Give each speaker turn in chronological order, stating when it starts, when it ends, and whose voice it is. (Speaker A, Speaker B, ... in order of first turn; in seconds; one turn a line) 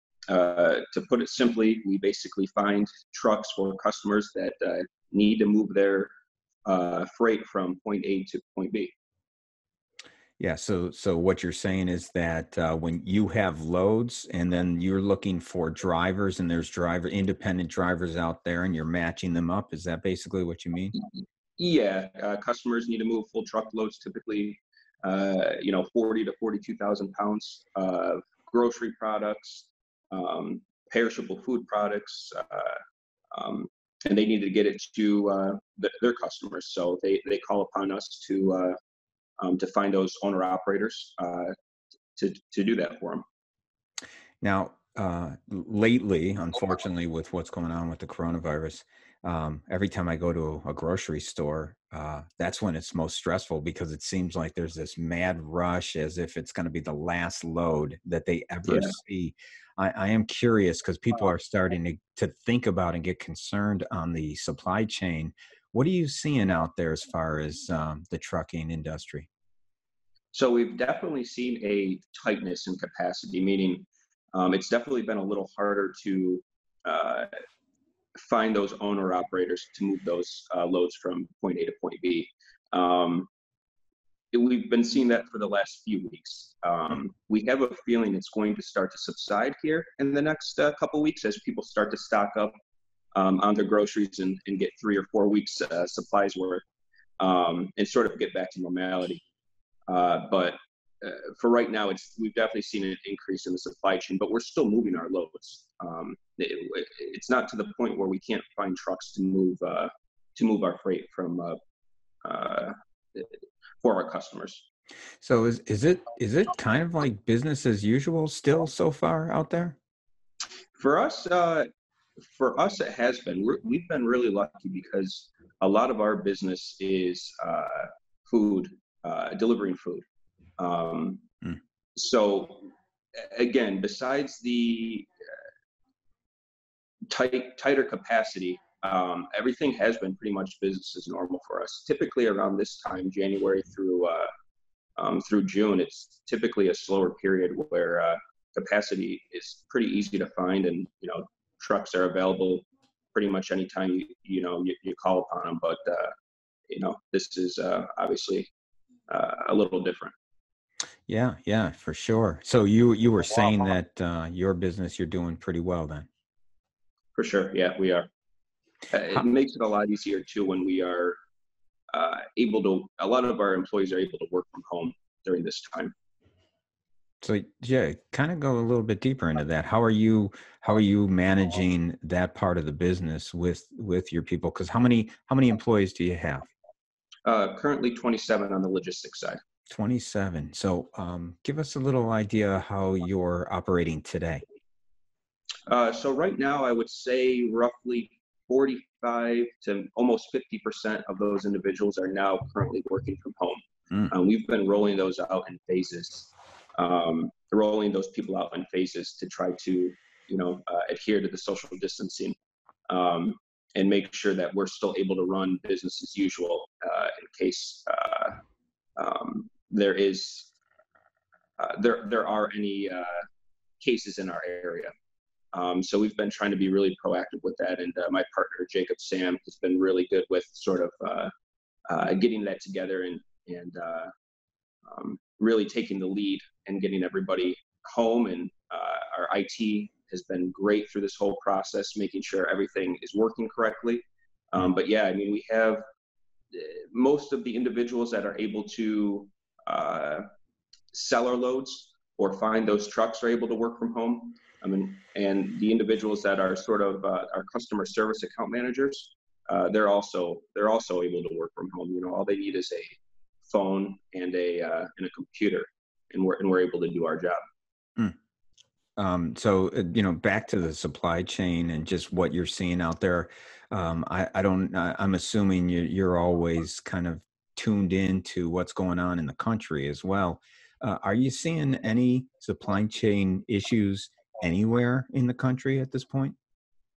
Speaker A: 0.3-6.1
Speaker A: 6.7-8.9
Speaker B: 10.4-20.9
Speaker A: 21.6-32.8
Speaker A: 33.3-38.7
Speaker A: 39.4-41.5
Speaker A: 42.1-43.2
Speaker B: 44.4-69.3
Speaker A: 70.3-77.3
Speaker A: 78.2-83.3
Speaker A: 84.3-92.5
Speaker A: 93.1-96.6
Speaker A: 97.2-99.2
Speaker A: 99.9-111.5
Speaker A: 112.2-114.7
Speaker B: 115.2-119.8
Speaker A: 120.8-121.7
Speaker A: 122.3-130.0
Speaker A: 130.6-131.2
Speaker A: 131.9-135.1
Speaker A: 137.1-144.3
Speaker A: 145.0-156.1
Speaker A: 156.7-158.5
Speaker A: 159.1-160.1
Speaker B: 161.1-166.1
Speaker A: 167.1-168.1
Speaker A: 168.9-171.2
Speaker A: 171.9-175.9
Speaker B: 177.2-186.5
Speaker A: 187.2-189.4
Speaker B: 189.7-194.4
Speaker A: 195.7-212.3
Speaker A: 212.9-218.4
Speaker A: 219.0-220.5
Speaker A: 221.6-223.2
Speaker A: 223.8-224.9
Speaker A: 225.5-231.3
Speaker A: 231.9-234.1
Speaker A: 234.9-245.8
Speaker A: 246.5-250.2
Speaker A: 250.9-262.9
Speaker A: 263.5-267.4
Speaker B: 269.0-286.4